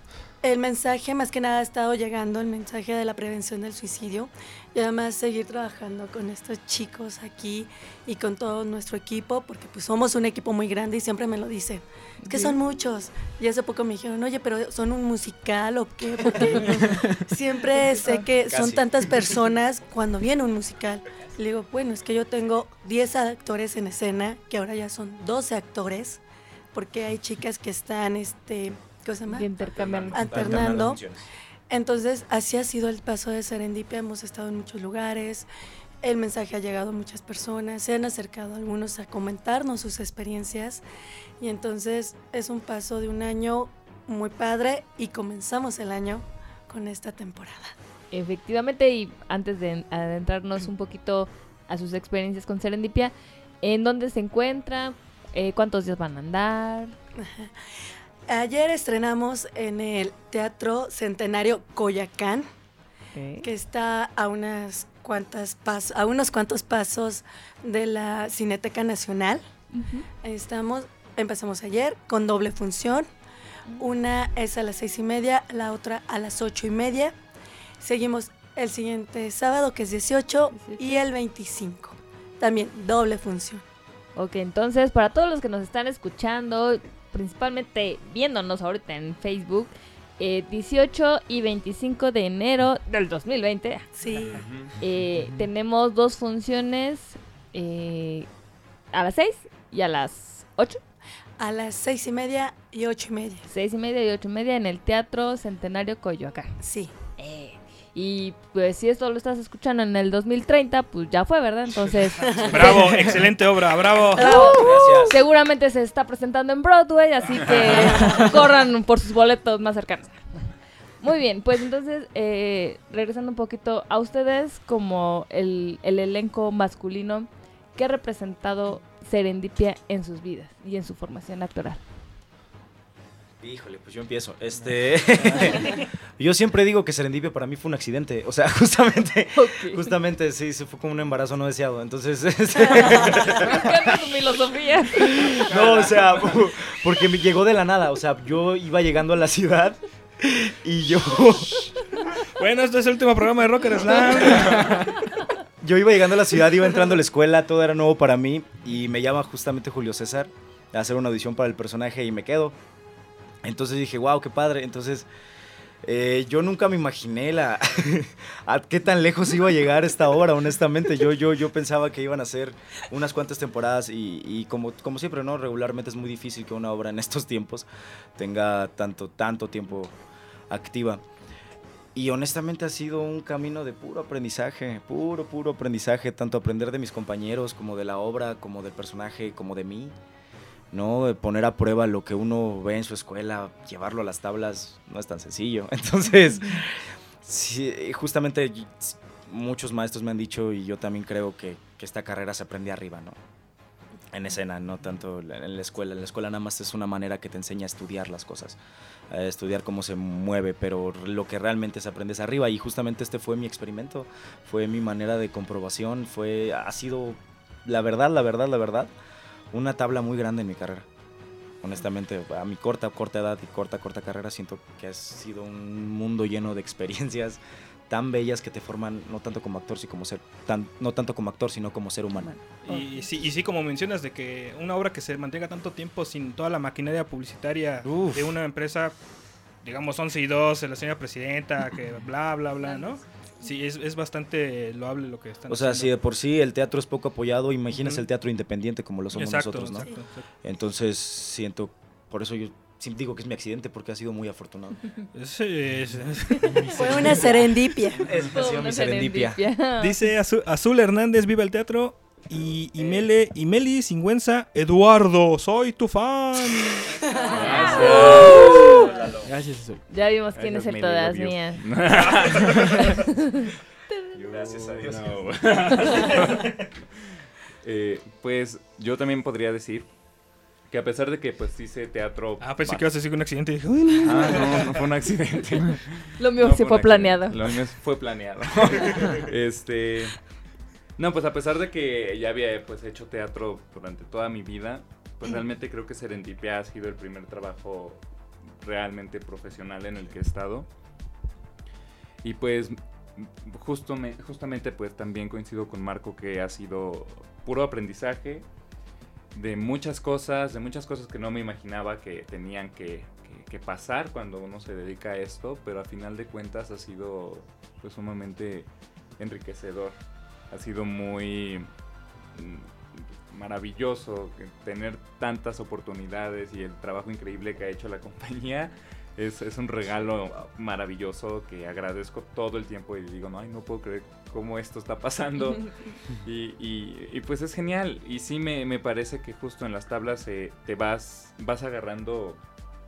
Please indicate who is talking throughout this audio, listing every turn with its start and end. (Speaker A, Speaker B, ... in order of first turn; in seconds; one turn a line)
Speaker A: 0.4-26.2
Speaker B: 12.2-12.6
Speaker B: 17.9-18.2
Speaker C: 18.5-19.5
Speaker A: 26.7-29.5
Speaker B: 29.3-30.8
Speaker C: 29.6-31.2
Speaker A: 30.1-31.0
Speaker A: 31.7-35.5
Speaker A: 36.0-40.8
Speaker A: 41.4-47.8
Speaker B: 48.1-57.0
Speaker A: 57.2-57.5
Speaker A: 58.3-62.5
Speaker B: 63.1-63.5
Speaker A: 63.4-69.4
Speaker B: 69.7-70.1
Speaker A: 70.2-73.1
Speaker A: 73.8-77.2
Speaker A: 77.8-83.6
Speaker B: 80.5-81.0
Speaker B: 84.2-93.9
Speaker A: 94.0-94.5
Speaker D: 94.2-94.8
Speaker B: 94.8-98.3
Speaker E: 95.2-95.5
Speaker B: 98.9-100.8
Speaker A: 101.4-103.5
Speaker B: 103.5-106.6
Speaker A: 106.6-106.9
Speaker B: 107.2-113.1
Speaker A: 112.2-113.1
Speaker F: 112.5-114.6
Speaker A: 114.2-115.1
Speaker B: 114.2-120.2
Speaker C: 114.5-115.2
Speaker A: 117.8-118.3
Speaker B: 121.0-131.8
Speaker C: 133.4-143.5
Speaker B: 139.4-139.9
Speaker A: 142.8-143.2
Speaker B: 143.3-145.3
Speaker C: 145.0-151.7
Speaker D: 145.5-145.9
Speaker F: 151.1-151.4
Speaker F: 152.4-154.7
Speaker C: 155.6-162.6
Speaker C: 163.4-165.1
Speaker C: 165.8-180.0
Speaker C: 180.5-181.0
Speaker C: 181.9-189.9
Speaker C: 190.7-203.2
Speaker C: 204.1-208.6
Speaker C: 209.1-218.9
Speaker C: 219.5-220.9
Speaker C: 221.6-232.3
Speaker F: 232.6-238.9
Speaker F: 239.6-246.0
Speaker B: 242.7-242.9
Speaker C: 245.5-249.9
Speaker F: 247.8-248.1
Speaker F: 249.1-250.2
Speaker A: 249.8-250.1
Speaker C: 250.4-254.9
Speaker F: 255.1-256.5
Speaker E: 256.4-257.4
Speaker A: 256.7-258.0
Speaker C: 257.1-257.4
Speaker C: 258.0-259.4
Speaker B: 258.3-260.0
Speaker F: 259.8-266.9
Speaker C: 262.7-263.1
Speaker A: 267.1-268.2
Speaker D: 267.3-268.7
Speaker C: 267.4-269.3
Speaker B: 267.7-268.8
Speaker E: 269.2-269.8
Speaker B: 269.9-271.6
Speaker D: 270.3-273.2
Speaker C: 271.9-272.7
Speaker D: 274.1-276.6
Speaker C: 274.3-276.2
Speaker B: 275.8-276.1
Speaker D: 277.6-279.9
Speaker D: 280.7-282.9
Speaker F: 282.4-284.7
Speaker D: 284.0-290.2
Speaker B: 286.2-287.4
Speaker D: 291.0-298.0
Speaker D: 298.6-300.7
Speaker D: 302.2-308.4
Speaker D: 309.3-318.7
Speaker D: 319.2-320.0
Speaker D: 320.5-321.7
Speaker D: 322.3-335.7
Speaker D: 336.2-342.4